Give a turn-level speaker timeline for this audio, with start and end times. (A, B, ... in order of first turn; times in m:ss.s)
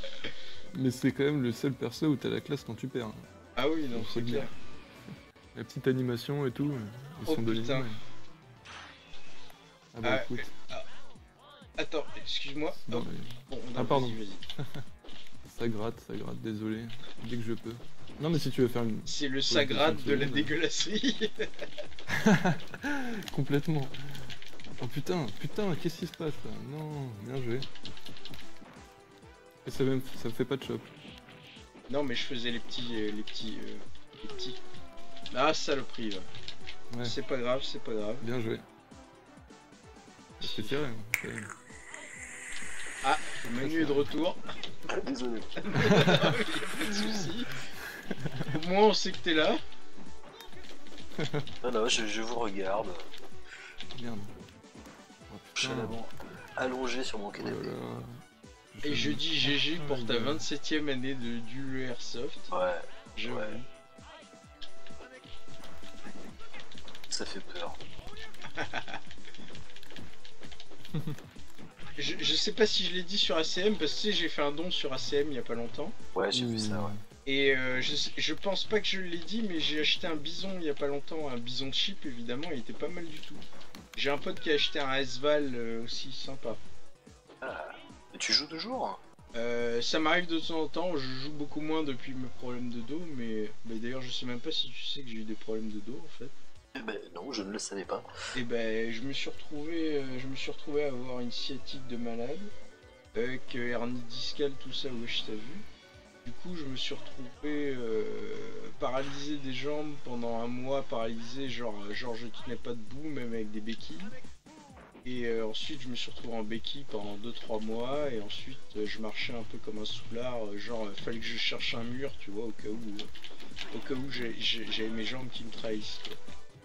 0:00.7-0:03.2 A
0:03.6-0:04.5 B
0:03.9-0:04.5 A
0:05.5-0:08.0 A
0:07.2-0:07.9 B
0:09.9-0:10.5 A
0:10.0-0:10.8 B
0:11.8-0:14.4 B
0:12.8-0:14.8 A
0:15.5-0:20.5 A
0:19.1-0:21.5 B
0:22.1-0:27.7 A
0:29.6-0:30.9 A
0:31.9-0:34.6 B
0:35.3-0:36.2 B
0:36.9-0:37.2 A
0:37.0-0:38.2 B
0:38.2-0:38.6 A
0:40.4-0:41.5 A
0:40.4-0:40.8 B
0:43.0-0:44.4 B
0:43.6-0:44.1 A
0:44.9-0:45.7 C
0:45.6-0:47.6 B
0:45.7-0:47.3 A
0:47.9-0:48.5 A
0:48.4-0:49.6 B
0:51.2-0:51.4 A
0:51.6-0:53.0 C
0:54.0-0:54.3 A
0:55.3-0:56.0 A
0:55.6-0:57.7 C
0:57.4-0:58.2 A
0:58.7-1:00.4 A
0:58.8-1:02.5 B
1:02.5-1:03.6 C
1:03.2-1:03.7 B
1:07.1-1:07.8 C
1:08.6-1:08.8 B
1:12.0-1:15.9 B
1:16.1-1:16.9 C
1:16.3-1:17.0 A
1:17.2-1:23.4 B
1:24.0-1:26.6 B
1:27.4-1:29.0 C
1:29.3-1:36.3 B
1:36.7-1:38.1 C
1:38.3-1:42.5 B
1:43.1-1:45.6 B
1:46.2-1:54.2 B
1:55.0-2:03.1 B
2:03.7-2:06.2 B